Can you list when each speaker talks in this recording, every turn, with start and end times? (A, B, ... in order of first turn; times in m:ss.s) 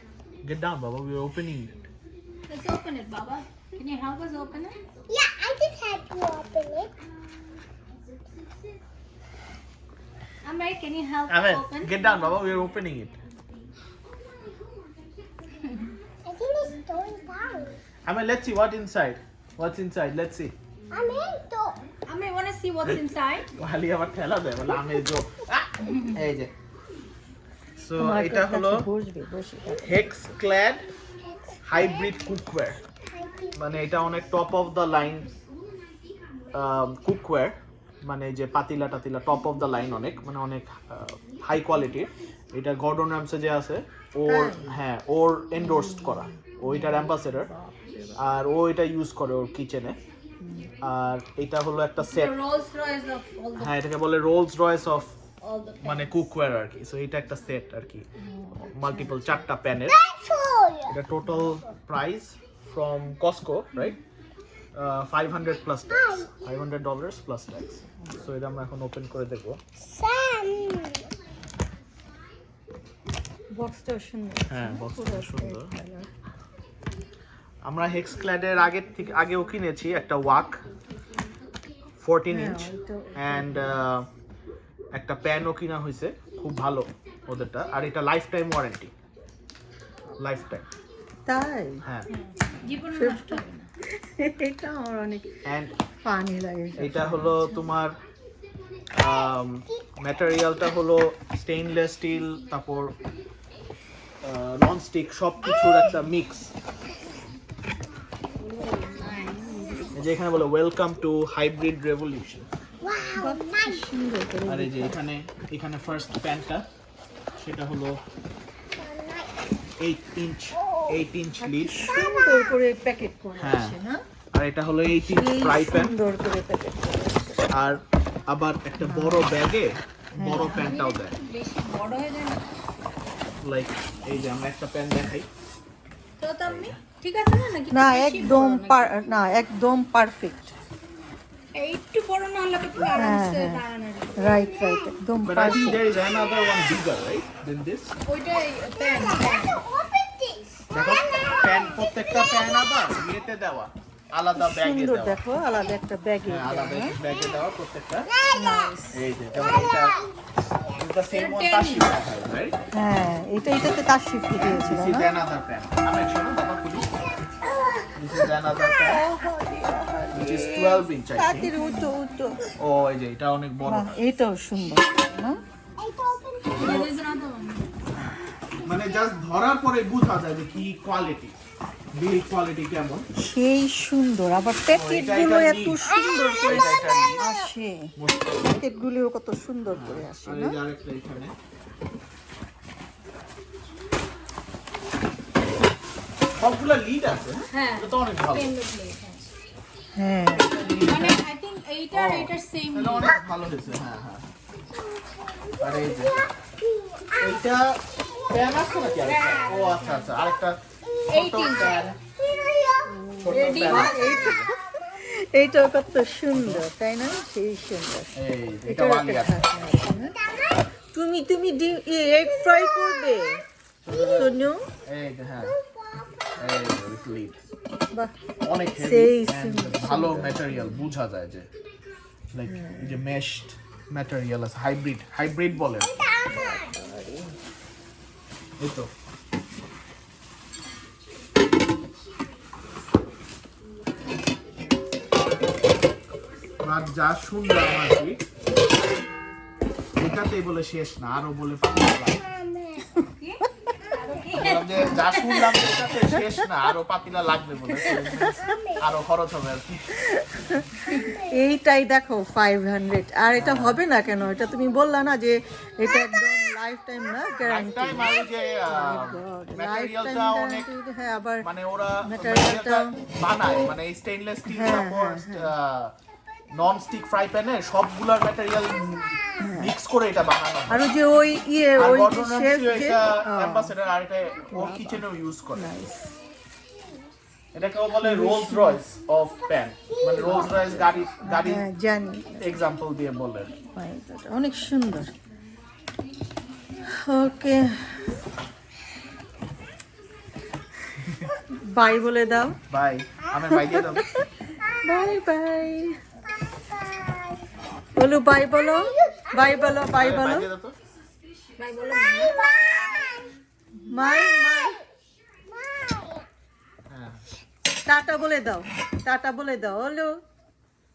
0:00.4-0:01.9 A
0:02.5-0:04.8 B
0:05.1-0:06.9 C
0:10.4-0:12.1 B
0:11.3-0:13.2 A
0:16.2-0:17.7 C
0:18.0-0:20.5 A
0:20.9-0:21.8 C
0:22.0-0:23.5 B
0:23.5-0:26.5 A
0:27.8-0:28.9 A
0:28.0-0:30.1 D
0:29.8-0:30.8 A
0:31.6-0:32.8 A
0:33.0-0:33.6 C
0:33.5-0:35.3 A
0:36.5-0:47.5 A
0:44.2-0:44.8 D
0:45.6-0:48.2 D
0:48.2-0:50.0 A
0:50.4-0:50.7 D
0:50.8-0:52.4 A
0:52.0-0:53.8 B
0:53.6-0:55.1 A
0:55.4-0:56.2 B
0:55.8-0:58.1 A
0:58.2-0:59.4 D
0:58.7-1:00.0 A
0:59.9-1:00.9 C
1:00.9-1:04.0 A
1:04.7-1:09.6 A
1:05.9-1:06.3 C
1:09.8-1:11.0 C
1:13.5-1:16.1 D
1:14.5-1:15.7 A
1:17.6-1:20.6 A
1:22.0-1:24.1 A
1:22.3-1:23.8 D
1:24.9-1:28.9 A
1:30.2-1:30.7 A
1:31.2-1:31.8 D
1:32.1-1:33.7 B
1:32.9-1:35.3 D
1:35.4-1:35.7 A
1:36.0-1:37.7 D
1:36.8-1:38.0 A
1:38.9-1:42.9 A
1:44.2-1:46.5 A
1:48.4-1:49.8 B
1:49.0-1:49.9 D
1:49.9-1:52.5 A
1:52.8-1:53.9 C
1:53.1-1:55.0 D
1:54.4-1:56.7 A
1:57.4-1:58.0 A
1:58.8-1:59.3 C
1:59.8-2:01.8 A
2:00.6-2:01.0 C
2:01.4-2:04.0 D
2:01.9-2:02.5 C
2:03.4-2:03.8 A
2:04.3-2:06.0 A
2:05.0-2:07.8 D
2:07.5-2:11.2 A
2:08.8-2:09.3 D
2:10.1-2:10.7 D
2:10.5-2:12.6 B
2:13.4-2:15.3 A
2:16.2-2:19.0 B
2:16.4-2:16.8 A
2:17.7-2:20.5 D
2:21.5-2:24.3 B
2:22.9-2:23.6 D
2:24.2-2:25.9 D
2:25.2-2:27.9 A
2:28.0-2:29.6 B
2:28.7-2:33.1 C
2:30.7-2:35.2 A
2:34.4-2:37.0 D
2:36.2-2:38.1 A
2:38.2-2:38.6 C
2:38.3-2:39.0 D
2:38.9-2:40.0 A
2:39.3-2:40.8 C
2:40.7-2:42.6 A
2:41.1-2:41.9 B
2:42.7-2:45.1 D
2:44.4-2:46.9 A
2:47.5-2:47.9 C
2:48.0-2:49.0 A
2:48.8-2:52.5 D
2:50.1-2:51.5 A
2:52.6-2:53.9 A
2:53.6-2:55.4 D
2:55.8-2:56.9 C
2:56.4-2:57.7 B
2:56.6-2:56.9 A
2:58.6-3:01.4 A
3:01.9-3:03.1 A
3:03.2-3:07.9 D
3:04.7-3:05.9 A
3:06.4-3:07.3 A
3:08.0-3:08.5 A
3:08.4-3:10.6 D
3:09.7-3:11.3 A
3:16.4-3:18.5 A
3:17.5-3:19.3 B
3:20.0-3:20.5 D
3:20.3-3:21.2 A
3:20.6-3:23.2 B
3:21.9-3:24.2 A
3:24.7-3:27.4 C
3:25.6-3:26.2 A
3:27.2-3:32.0 A
3:29.0-3:30.2 B
3:31.1-3:31.9 B
3:32.0-3:32.9 C
3:32.9-3:40.2 D
3:33.2-3:34.5 A
3:33.3-3:34.1 B
3:36.3-3:36.6 A
3:38.2-3:39.4 A
3:40.2-3:40.6 C
3:40.9-3:43.4 D
3:43.8-3:45.6 A
3:44.0-3:44.7 D
3:45.5-3:46.4 C
3:46.4-3:47.4 A
3:48.4-3:51.5 A
3:48.7-3:50.8 D
3:52.3-3:56.0 A
3:52.5-3:53.0 D
3:55.9-3:56.3 C
3:56.2-3:57.4 D
3:58.6-3:58.9 A
4:06.6-4:08.2 A
4:10.0-4:12.2 A
4:12.3-4:13.0 C
4:13.2-4:15.6 B
4:14.3-4:19.9 A
4:18.2-4:18.8 C
4:19.9-4:31.4 D
4:20.9-4:21.4 C
4:23.4-4:23.8 A
4:27.4-4:30.7 A
4:31.4-4:35.9 A
4:32.0-4:33.0 D
4:34.5-4:35.5 D
4:36.5-4:40.9 A
4:39.4-4:39.7 D
4:40.7-4:43.7 D
4:41.8-4:45.9 A
4:44.5-4:46.1 D
4:47.5-4:51.6 A
4:48.0-4:48.8 D
4:50.2-4:52.6 D
4:52.4-4:53.5 A
4:53.7-4:55.1 D
4:57.0-4:58.0 D
5:01.6-5:02.6 D
5:02.7-5:04.1 A
5:03.5-5:04.2 D
5:04.8-5:06.0 D
5:06.6-5:07.4 C
5:07.9-5:10.5 D
5:08.8-5:09.8 C
5:09.9-5:10.7 A
5:11.6-5:12.4 B
5:12.1-5:13.2 C
5:13.9-5:14.8 D
5:15.5-5:16.3 C
5:16.9-5:17.2 A
5:17.9-5:20.1 D